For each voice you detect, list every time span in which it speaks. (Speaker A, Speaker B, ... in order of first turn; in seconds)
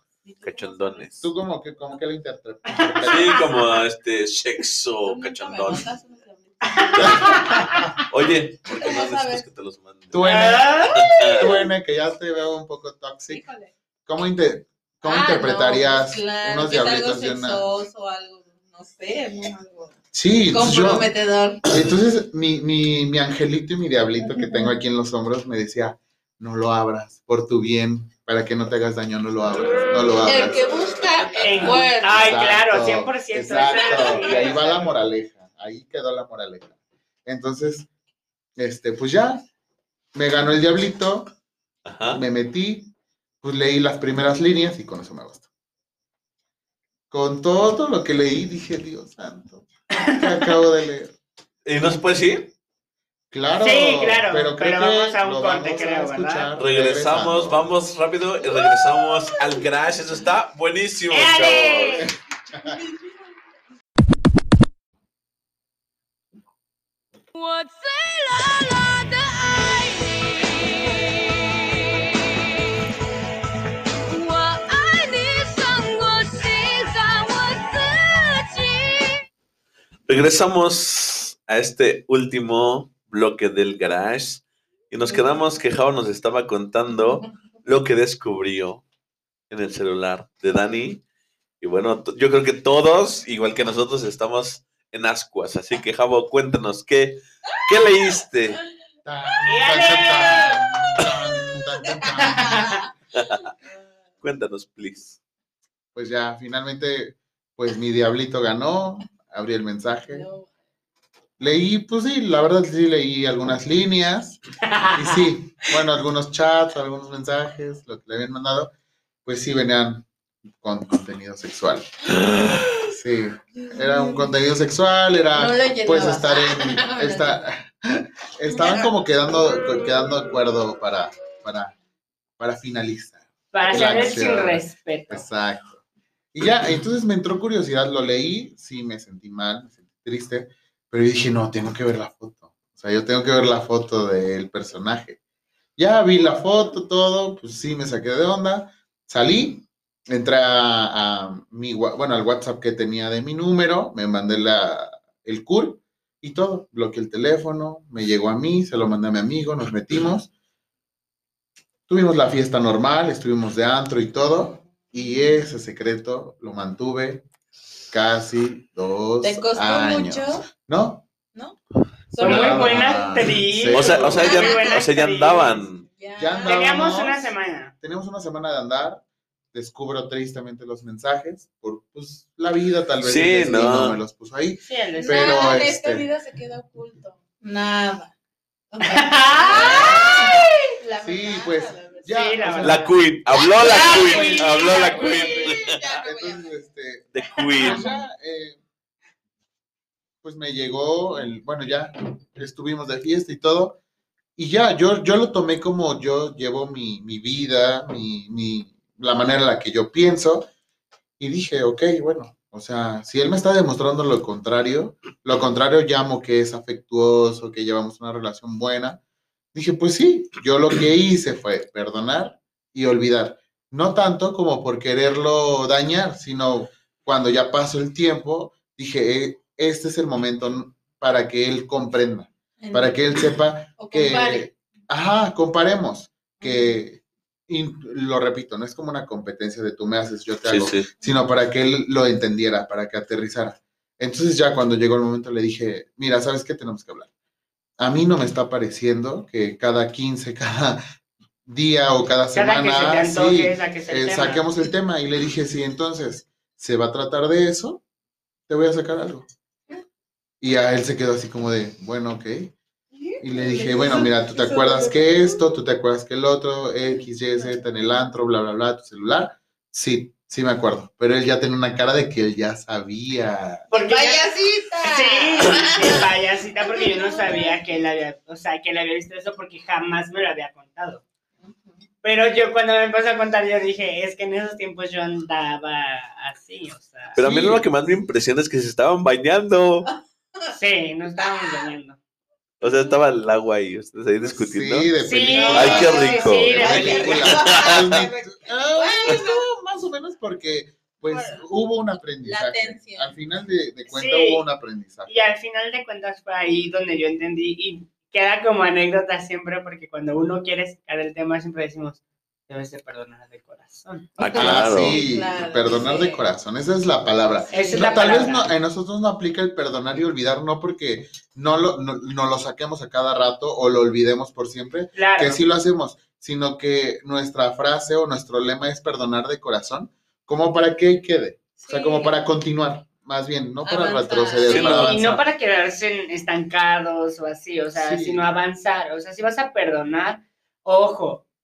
Speaker A: 0.2-1.1, 5.0-7.9, 8.7-9.4, 10.8-11.7, 13.3-13.7, 15.0-19.9, 20.5-21.7, 24.3-24.7, 30.2-32.4, 33.6-34.5, 58.4-59.6, 62.5-63.2, 99.8-102.8, 110.1-110.5, 123.6-124.3, 125.3-127.4, 128.5-128.9, 169.2-170.5, 172.1-173.0, 174.0-174.8, 175.9-177.0, 184.9-188.1, 188.7-192.2, 193.3-196.5, 232.6-233.0, 233.8-234.5, 236.4-236.8, 262.9-265.5, 266.9-267.6, 273.7-276.1, 276.7-277.6, 281.4-281.8, 292.6-293.0, 295.3-299.5, 301.1-301.4, 302.2-303.1, 314.2-316.2, 317.5-318.3, 331.6-332.2, 333.6-334.9
Speaker B: 0.4-1.2, 3.0-5.9, 6.9-10.2, 10.9-11.5, 31.2-31.6, 41.8-42.2, 51.6-52.5, 56.5-62.1, 80.1-88.8, 89.5-91.0, 91.6-98.6, 103.2-103.5, 104.2-105.2, 173.7-175.8, 183.0-184.0, 192.6-195.8, 197.1-197.9, 240.5-240.9, 287.1-289.9, 292.6-294.9, 295.5-298.0, 314.2-315.0, 334.4-334.9
Speaker C: 1.2-3.5, 10.1-13.4, 14.1-17.6, 20.1-21.1, 21.7-30.7, 32.1-37.9, 38.6-39.5, 40.1-41.3, 42.1-45.4, 47.1-51.1, 53.3-57.7, 99.0-102.7, 105.9-110.3, 111.4-114.4, 114.9-118.7, 119.2-120.0, 120.6-121.9, 122.9-131.7, 132.4-135.8, 136.3-145.2, 145.8-160.3, 161.9-167.2, 167.9-171.1, 172.2-174.3, 176.2-177.2, 177.8-179.0, 179.5-186.1, 189.5-190.4, 191.0-192.9, 195.8-198.6, 200.2-203.8, 204.3-210.5, 211.2-219.0, 219.5-247.1, 247.8-250.8, 251.4-257.8, 258.5-259.3, 260.4-262.5, 263.2-273.7, 287.2-287.6, 294.2-305.1, 314.3-335.2, 337.8-338.2
Speaker D: 2.8-3.4, 6.6-7.8, 10.2-10.9, 31.4-34.9, 50.0-50.5, 53.5-56.5, 61.1-62.1, 99.5-100.5, 102.2-102.8, 114.6-115.2, 133.5-135.2, 172.2-175.6, 176.4-177.7, 184.7-185.5, 188.9-190.7, 192.1-192.9, 193.6-195.3, 252.3-254.4, 273.7-274.3, 274.8-281.0, 282.0-287.2, 290.5-292.0, 295.0-297.2, 303.9-304.4, 305.1-314.1, 317.5-318.5, 324.9-325.4, 334.5-341.2
Speaker E: 67.3-72.5, 74.0-79.2